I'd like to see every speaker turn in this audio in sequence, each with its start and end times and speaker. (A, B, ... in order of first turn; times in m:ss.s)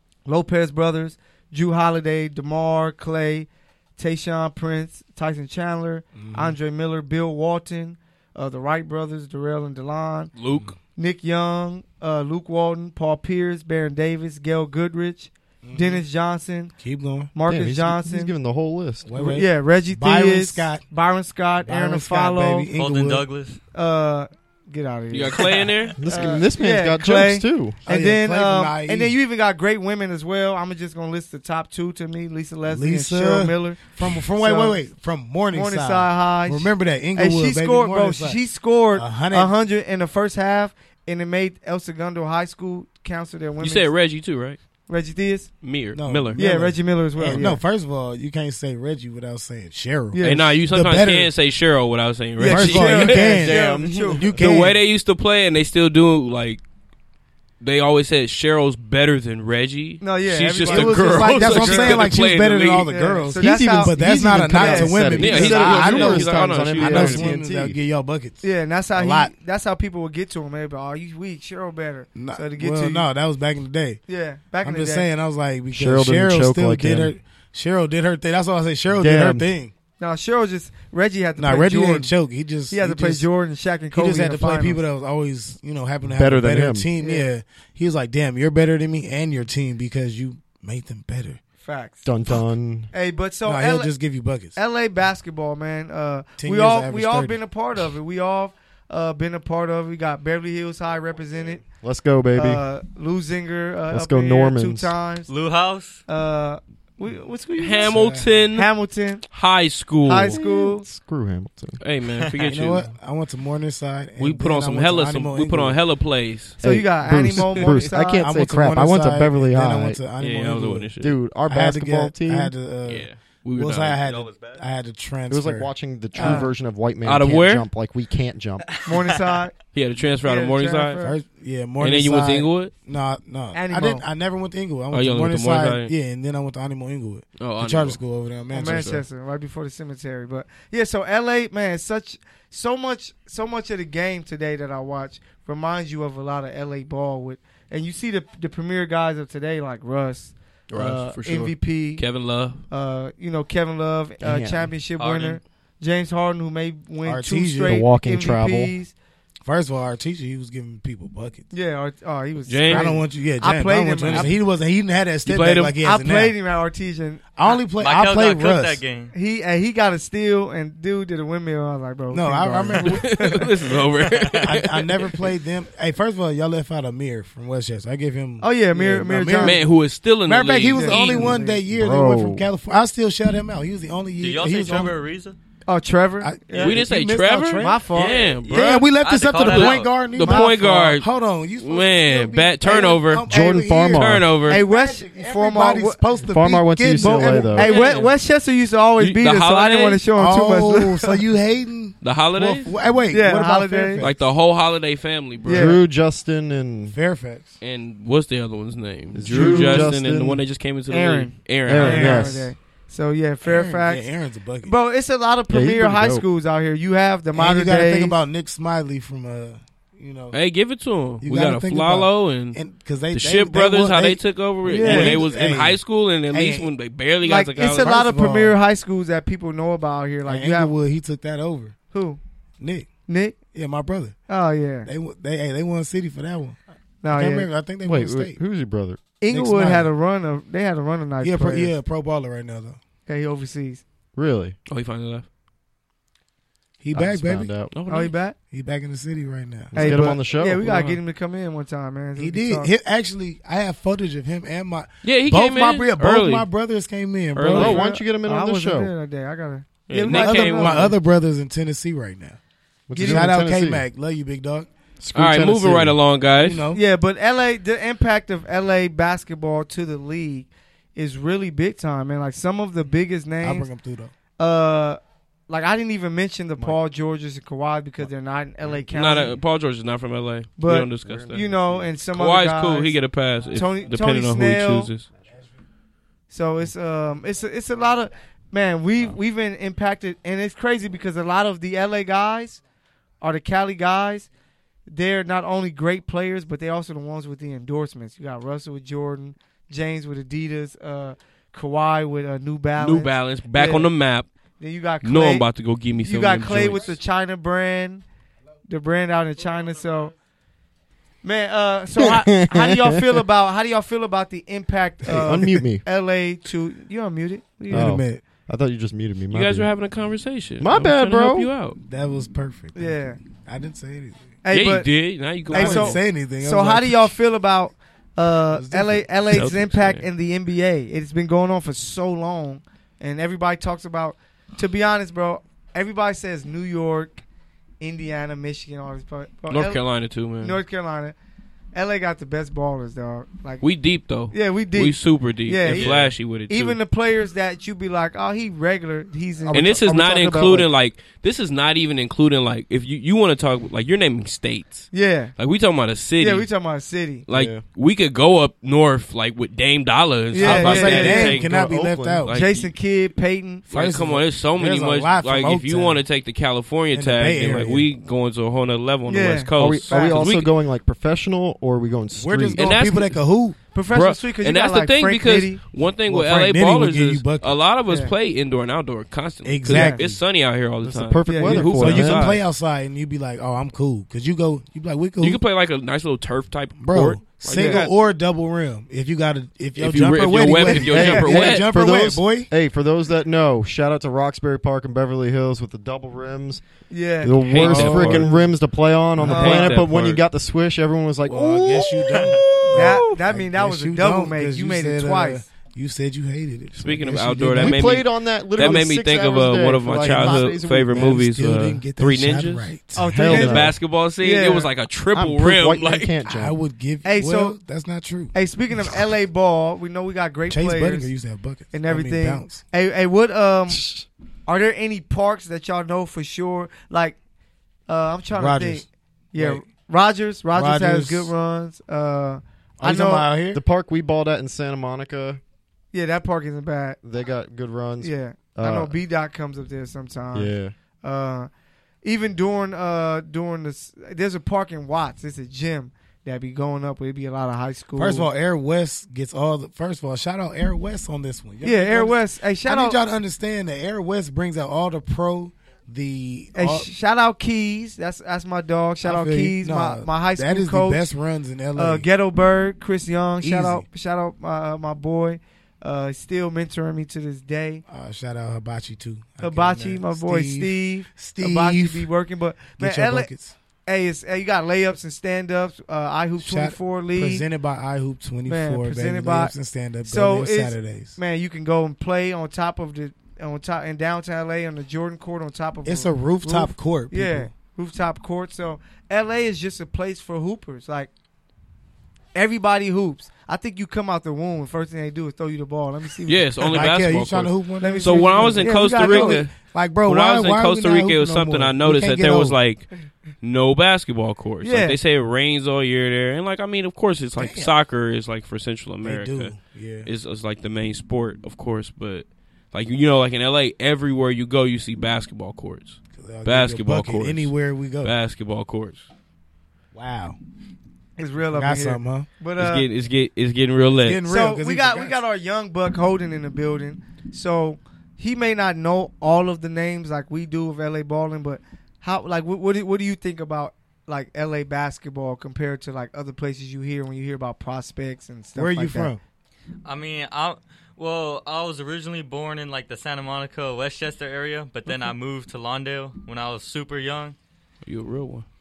0:00.3-0:10.3 A
0:06.2-0:06.6 B
0:10.4-0:10.7 C
0:11.0-0:16.7 A
0:15.6-0:16.1 B
0:16.8-0:17.3 B
0:17.3-0:18.3 A
0:17.5-0:19.1 D
0:19.0-0:20.8 B
0:19.2-0:22.7 A
0:21.6-0:23.3 B
0:22.7-0:23.6 E
0:23.7-0:34.8 A
0:25.1-0:26.0 C
0:26.0-0:27.8 D
0:27.8-0:29.2 B
0:32.7-0:38.4 B
0:35.5-0:43.9 A
0:39.0-0:39.5 B
0:43.6-0:44.6 C
0:44.9-0:45.5 A
0:45.6-0:46.4 C
0:45.9-0:51.3 B
0:46.4-0:47.6 A
0:50.1-0:50.5 A
0:50.2-0:53.2 C
0:52.4-0:54.3 A
0:52.4-0:54.8 B
0:52.8-0:54.4 D
0:54.4-0:56.6 C
0:57.6-1:02.9 C
1:00.0-1:02.1 A
1:00.6-1:09.3 B
1:02.9-1:04.0 A
1:03.4-1:07.4 D
1:04.5-1:05.1 A
1:05.2-1:07.7 C
1:08.4-1:13.1 A
1:12.2-1:14.0 B
1:14.1-1:15.1 A
1:14.6-1:19.7 B
1:15.7-1:17.1 D
1:19.0-1:19.5 D
1:20.0-1:22.1 A
1:21.4-1:23.3 B
1:22.7-1:24.8 A
1:23.9-1:31.4 B
1:26.1-1:26.9 D
1:27.0-1:27.3 A
1:31.6-1:32.1 A
1:32.0-1:32.9 D
1:32.9-1:33.9 A
1:33.4-1:34.6 B
1:34.6-1:41.7 A
1:36.4-1:37.4 B
1:41.8-1:42.6 D
1:42.4-1:45.3 A
1:43.9-1:44.9 D
1:45.3-1:46.0 E
1:46.1-1:48.0 A
1:47.6-1:48.7 C
1:47.8-1:48.3 B
1:48.5-1:49.3 A
1:49.3-1:50.4 C
1:50.1-1:50.9 A
1:50.3-1:51.8 D
1:51.8-1:52.9 C
1:52.2-1:52.6 E
1:52.5-1:55.8 B
1:54.2-1:56.6 C
1:56.6-1:58.3 A
1:56.6-2:00.0 D
1:58.2-2:00.9 B
2:00.2-2:01.2 C
2:01.0-2:02.5 D
2:01.4-2:06.4 B
2:02.9-2:04.0 C
2:04.0-2:04.6 E
2:05.3-2:08.7 D
2:06.2-2:06.5 A
2:07.0-2:07.7 C
2:08.6-2:09.4 E
2:08.8-2:11.2 A
2:09.7-2:11.0 C
2:11.0-2:19.0 B
2:11.8-2:12.7 C
2:13.5-2:14.0 A
2:14.9-2:15.9 C
2:17.4-2:18.0 C
2:18.5-2:32.1 A
2:18.6-2:19.0 C
2:30.7-2:32.6 C
2:32.6-2:38.9 A
2:34.2-2:34.7 D
2:35.0-2:35.4 E
2:37.0-2:37.8 B
2:37.6-2:38.7 D
2:39.4-2:41.5 B
2:41.5-2:44.3 A
2:42.5-2:43.0 C
2:42.7-2:46.4 B
2:44.0-2:44.3 C
2:45.2-2:45.8 C
2:45.8-2:47.3 A
2:47.4-2:48.8 B
2:47.8-2:49.1 E
2:49.1-2:53.5 A
2:52.1-2:53.2 B
2:52.8-2:55.2 C
2:54.1-2:54.5 E
2:54.4-2:59.6 B
2:58.4-2:59.6 A
2:59.4-3:01.4 C
3:00.3-3:05.0 B
3:00.7-3:01.6 A
3:01.7-3:02.5 D
3:04.2-3:05.4 E
3:05.7-3:06.8 A
3:06.2-3:17.6 B
3:06.6-3:11.1 C
3:07.6-3:08.2 A
3:08.0-3:09.9 E
3:10.2-3:11.0 A
3:11.6-3:14.6 C
3:13.3-3:14.3 D
3:14.5-3:16.0 A
3:16.3-3:17.7 D
3:17.0-3:21.2 A
3:17.6-3:18.1 C
3:19.0-3:20.0 C
3:20.1-3:24.2 B
3:22.0-3:22.8 C
3:23.1-3:24.0 A
3:24.0-3:25.8 C
3:25.4-3:25.8 A
3:25.5-3:27.0 D
3:26.9-3:27.6 B
3:27.6-3:32.4 C
3:29.1-3:30.4 D
3:29.3-3:29.9 A
3:30.9-3:34.1 A
3:31.6-3:32.5 D
3:33.4-3:34.7 B
3:34.6-3:38.2 A
3:35.5-3:36.2 D
3:37.3-3:40.4 B
3:40.3-3:42.6 C
3:41.2-3:46.7 B
3:43.1-3:47.9 C
3:44.7-3:45.2 A
3:47.2-3:50.7 A
3:47.7-3:48.6 B
3:50.2-3:51.8 B
3:51.9-3:52.2 A
3:52.6-3:52.9 B
3:53.1-3:53.4 A
3:53.5-3:54.2 B
3:54.3-3:54.9 A
3:54.9-3:56.6 B
3:57.0-3:57.5 A
3:57.1-3:58.4 B
3:57.8-3:59.0 D
3:59.2-4:01.7 A
3:59.3-3:59.9 B
4:01.2-4:02.8 B
4:03.1-4:03.8 A
4:04.2-4:04.6 D
4:04.7-4:05.3 C
4:06.8-4:07.5 B
4:06.9-4:07.7 D
4:07.7-4:08.1 C
4:07.9-4:08.4 A
4:08.5-4:10.1 B
4:09.7-4:10.7 D
4:09.8-4:12.7 A
4:10.6-4:11.0 C
4:12.2-4:17.8 B
4:15.0-4:16.5 C
4:17.4-4:17.8 C
4:17.5-4:20.9 A
4:17.6-4:18.9 D
4:19.9-4:20.9 C
4:20.1-4:22.4 B
4:22.9-4:23.8 D
4:23.0-4:23.3 A
4:23.0-4:24.7 B
4:25.0-4:26.0 D
4:25.1-4:26.7 C
4:26.4-4:26.8 B
4:26.7-4:33.7 A
4:33.4-4:34.1 B
4:34.4-4:39.4 A
4:38.9-4:41.5 C
4:40.6-4:43.0 A
4:41.0-4:41.9 D
4:42.1-4:45.1 C
4:43.5-4:44.9 A
4:46.3-4:52.6 A
4:53.2-4:54.3 A
4:54.9-5:03.9 A
5:02.8-5:04.3 C
5:04.6-5:05.5 A
5:05.0-5:07.0 C
5:06.0-5:08.0 A
5:08.7-5:10.1 A
5:11.2-5:17.9 A
5:12.0-5:13.2 D
5:15.1-5:15.8 D
5:17.7-5:18.2 B
5:17.7-5:19.7 D
5:19.3-5:21.8 C
5:20.6-5:21.5 D
5:21.8-5:24.3 B
5:22.8-5:23.2 A
5:24.4-5:24.9 A
5:24.5-5:26.0 C
5:25.5-5:37.2 A
5:25.5-5:27.1 B
5:28.5-5:29.5 B
5:29.3-5:30.1 C
5:37.8-5:39.8 A
5:39.5-5:40.6 C
5:40.4-5:41.2 A
5:41.7-5:43.6 A
5:43.6-5:46.8 C
5:44.3-5:50.7 A
5:45.7-5:46.1 E
5:49.5-5:56.5 C
5:54.9-5:55.3 A
5:56.2-5:57.3 A
5:57.3-6:02.7 C
6:00.3-6:01.4 A
6:00.4-6:02.4 B
6:00.9-6:02.2 D
6:02.3-6:03.7 A
6:03.7-6:06.0 B
6:03.7-6:10.6 C
6:06.9-6:07.9 B
6:09.1-6:10.4 A
6:09.6-6:13.0 D
6:12.1-6:13.6 B
6:12.6-6:13.2 C
6:13.7-6:15.6 A
6:13.9-6:22.4 C
6:16.1-6:17.5 B
6:19.4-6:20.2 B
6:19.7-6:20.0 A
6:20.8-6:22.3 D
6:21.3-6:21.7 A
6:21.5-6:25.4 B
6:25.2-6:27.9 C
6:26.8-6:32.5 B
6:27.5-6:27.9 A
6:29.8-6:31.7 C
6:30.9-6:31.3 A
6:30.9-6:36.6 D
6:36.9-6:37.4 A
6:37.2-6:43.1 D
6:37.4-6:38.3 C
6:37.6-6:38.6 B
6:39.2-6:39.7 B
6:39.2-6:40.2 C
6:39.3-6:39.8 A
6:41.2-6:48.0 B
6:42.7-6:45.4 A
6:46.8-6:56.1 C
6:47.6-6:51.0 D
6:50.1-6:50.4 B
6:50.9-6:53.4 B
6:53.0-6:54.7 A
6:53.1-6:53.8 D
6:55.1-6:56.6 D
6:56.2-6:58.3 B
6:57.0-6:57.6 A
6:58.3-7:01.1 A
7:00.5-7:02.6 B
7:01.7-7:03.8 A
7:03.7-7:04.1 D
7:04.5-7:07.2 A
7:07.9-7:13.3 A
7:08.3-7:09.6 B
7:10.6-7:11.3 B
7:12.8-7:13.6 B
7:13.5-7:15.4 D
7:15.9-7:17.0 A
7:17.0-7:18.9 D
7:18.0-7:21.5 A
7:20.3-7:20.7 D
7:22.0-7:28.3 A
7:28.0-7:36.9 B
7:31.6-7:33.0 A
7:36.6-7:41.1 A
7:39.0-7:42.1 B
7:41.8-7:47.8 A
7:43.4-7:43.8 B
7:47.9-7:52.1 B
7:49.4-7:53.3 A
7:52.8-7:53.6 B
7:53.9-7:57.4 A
7:56.4-8:01.2 B
7:58.5-7:59.5 A
8:00.0-8:11.1 A
8:05.8-8:07.5 B
8:12.4-8:16.7 A
8:16.3-8:39.1 C
8:16.7-8:22.6 B
8:17.8-8:19.4 A
8:24.6-8:25.0 A
8:27.4-8:27.7 B
8:29.0-8:30.1 B
8:36.1-8:38.1 B
8:39.9-8:40.4 B
8:41.2-8:42.9 A
8:41.5-8:42.3 B
8:42.6-8:44.2 C
8:43.9-8:45.2 B
8:44.3-8:59.1 A
8:58.6-8:59.2 B
8:59.8-9:07.4 E
9:07.8-9:08.5 C